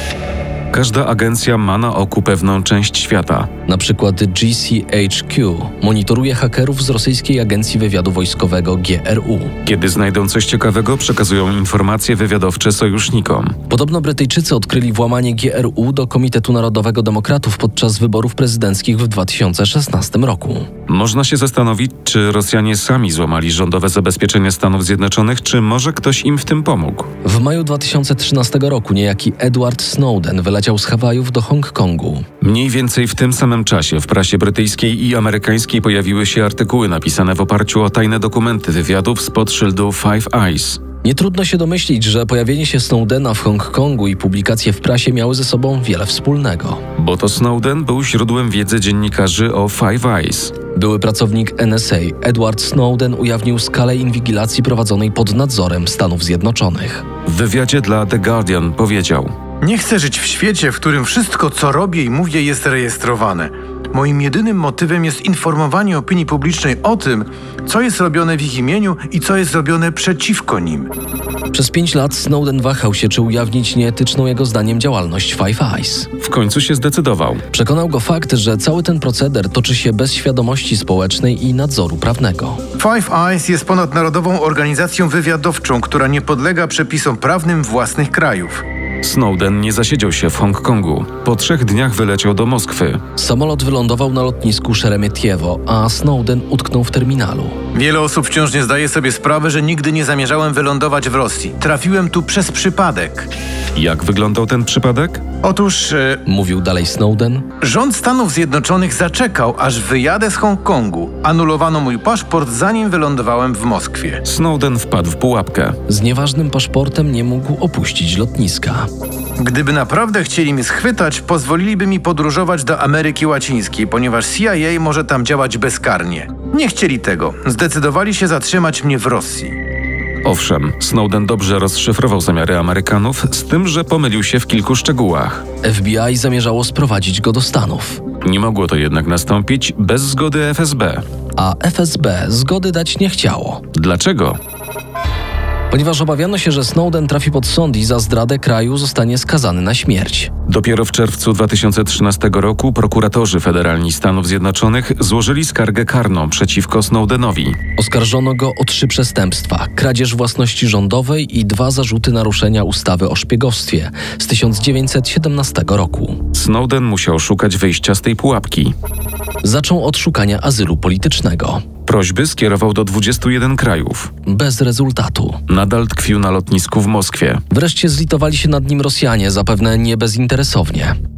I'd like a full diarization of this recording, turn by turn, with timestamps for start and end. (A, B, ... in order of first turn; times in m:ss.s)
0:00.7-0:03.5 A
0:03.7-0:09.5 B
0:09.6-0:13.6 A
0:13.7-0:20.7 B
0:20.9-0:27.1 A
0:27.2-0:32.3 B
0:32.4-0:40.8 A
0:41.0-0:46.8 B
0:47.0-0:50.6 A
0:50.8-0:57.0 B
0:57.3-0:59.3 A
0:59.6-1:10.9 C
1:11.5-1:16.1 B
1:16.2-1:17.4 A
1:17.5-1:22.6 B
1:22.8-1:28.6 C
1:29.0-1:33.0 A
1:33.2-1:37.6 B
1:37.7-1:43.3 C
1:43.8-1:45.2 A
1:45.4-1:46.2 C
1:46.3-1:47.5 B
1:47.6-1:54.2 C
1:54.2-1:55.8 A
1:55.9-1:58.9 B
1:59.4-2:09.6 C
2:10.2-2:15.4 A
2:15.6-2:18.0 B
2:18.2-2:21.0 A
2:21.4-2:23.6 B
2:23.7-2:24.4 A
2:25.7-2:30.3 B
2:30.5-2:37.6 A
2:37.8-2:46.2 B
2:46.3-2:48.8 A
2:49.4-2:51.6 B
2:51.9-2:54.1 A
2:54.3-2:55.4 B
2:55.5-2:57.4 A
2:57.5-3:01.0 B